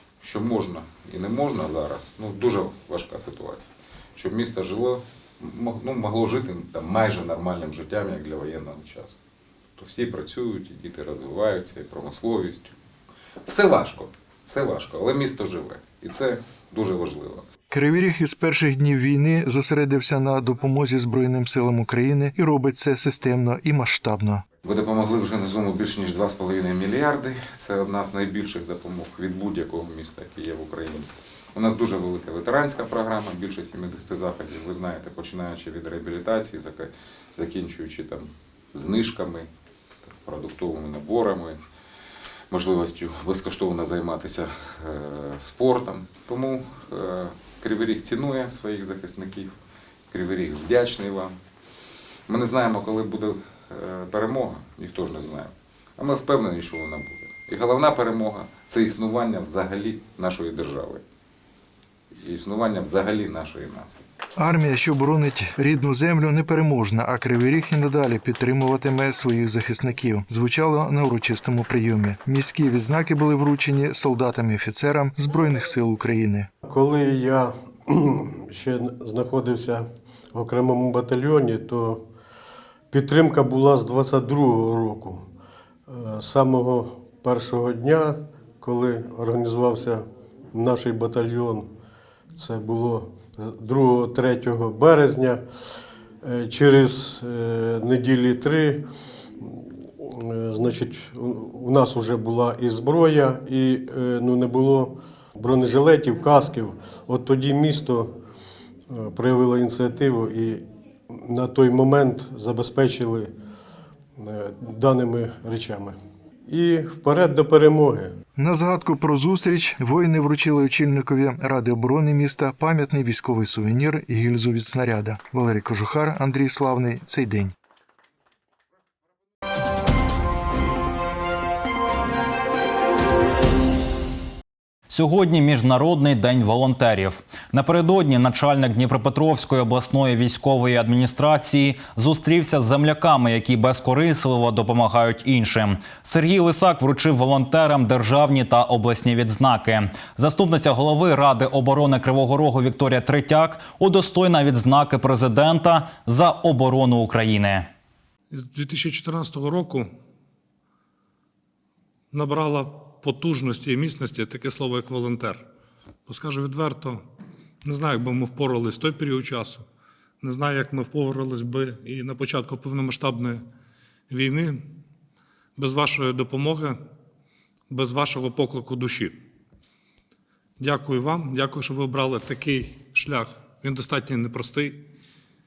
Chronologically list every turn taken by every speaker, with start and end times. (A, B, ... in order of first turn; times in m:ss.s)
0:00.2-0:09.2 A
0:09.8-0:12.8 A
0:13.5-0:17.5 A
0:17.7-0:24.4 B
0:24.6-0:39.5 A
0:40.1-0:41.6 A
0:42.5-0:49.6 A
0:50.1-0:51.4 A
0:52.3-1:01.0 A
1:02.2-1:04.0 A
1:04.4-1:16.5 B
1:16.6-1:22.1 C
1:22.9-1:25.3 C
1:25.9-1:31.7 C
1:32.3-1:35.4 C
1:36.2-1:38.8 C
1:39.4-1:48.1 C
1:48.9-1:53.3 C
1:54.2-1:58.2 C
1:58.4-2:07.5 B
2:14.9-2:37.7 D
2:38.3-2:39.9 E
2:42.1-2:45.4 E
2:46.1-2:47.0 E
2:47.6-2:49.6 E
2:50.2-2:53.4 E
2:54.1-2:54.7 E
2:55.6-2:56.8 E
2:57.7-2:59.2 E
3:00.6-3:04.9 E